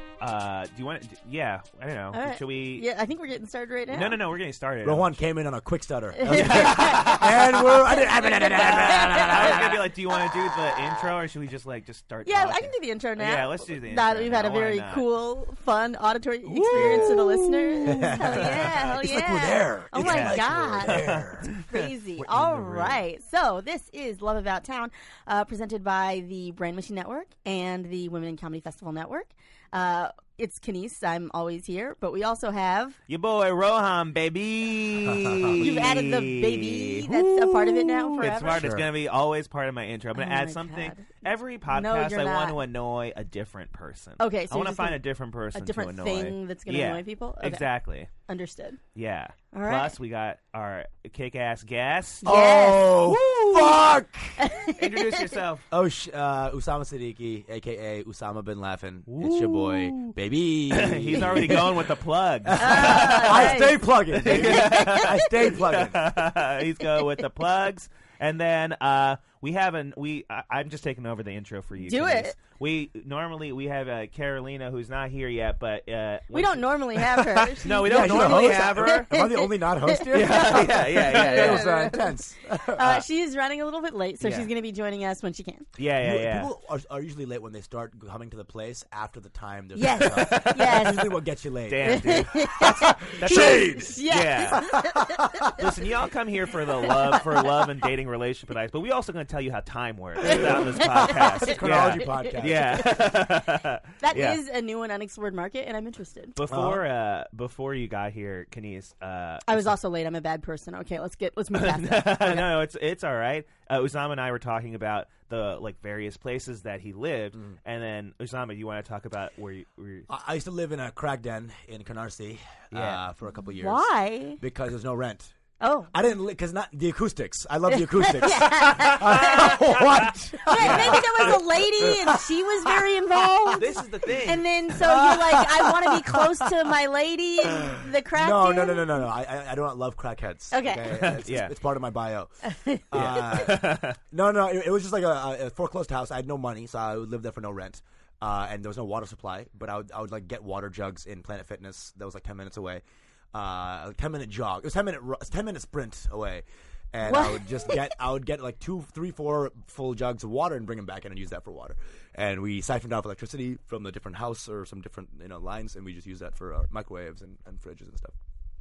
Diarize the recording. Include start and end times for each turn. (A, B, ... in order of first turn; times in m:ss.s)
0:00.2-0:02.9 A
0:02.1-0:04.2 B
0:03.9-0:05.2 A
0:04.8-0:09.9 C
0:06.2-0:11.0 B
0:06.3-0:07.5 A
0:08.6-0:15.1 A
0:12.2-0:33.0 B
0:16.4-0:21.6 C
0:16.7-0:17.2 A
0:17.9-0:18.8 A
0:19.9-0:21.6 A
0:22.2-0:23.0 C
0:33.1-0:37.1 A
0:35.2-0:35.5 C
0:35.6-0:38.7 B
0:37.1-0:38.9 C
0:38.2-0:48.1 A
0:40.1-0:41.1 B
0:41.7-0:42.6 B
0:44.2-0:45.0 B
0:45.5-0:48.8 B
0:48.9-0:52.3 A
0:49.5-0:49.9 B
0:52.2-0:53.7 B
0:52.2-0:54.5 C
0:54.4-0:55.2 B
0:54.8-0:55.7 A
0:55.7-1:01.9 C
0:59.1-1:00.2 A
1:00.7-1:19.1 A
1:02.4-1:06.2 C
1:02.6-1:05.5 B
1:06.8-1:07.2 B
1:11.8-1:12.3 B
1:16.3-1:25.7 B
1:17.6-1:23.0 C
1:20.1-1:21.7 A
1:24.2-1:24.5 A
1:25.8-1:26.5 A
1:26.0-1:35.7 C
1:29.7-1:31.1 B
1:31.7-1:34.7 A
1:31.8-1:35.6 B
1:35.5-1:44.4 A
1:36.8-1:37.2 B
1:40.3-1:43.3 B
1:41.0-1:43.0 C
1:44.0-1:46.4 B
1:46.3-1:49.6 A
1:46.5-1:46.8 C
1:49.4-1:52.6 B
1:51.5-2:00.1 A
2:00.1-2:03.8 C
2:02.7-2:03.0 A
2:03.6-2:04.4 B
2:04.4-2:05.3 C
2:05.6-2:05.9 B
2:05.9-2:13.5 C
2:07.7-2:13.7 B
2:10.5-2:11.4 A
2:13.5-2:14.4 A
2:14.2-2:19.1 B
2:14.7-2:16.5 C
2:17.5-2:22.3 C
2:20.5-2:21.1 B
2:20.9-2:21.5 A
2:22.4-2:23.5 B
2:22.9-2:48.1 C
2:22.9-2:24.0 A
2:37.0-2:37.9 B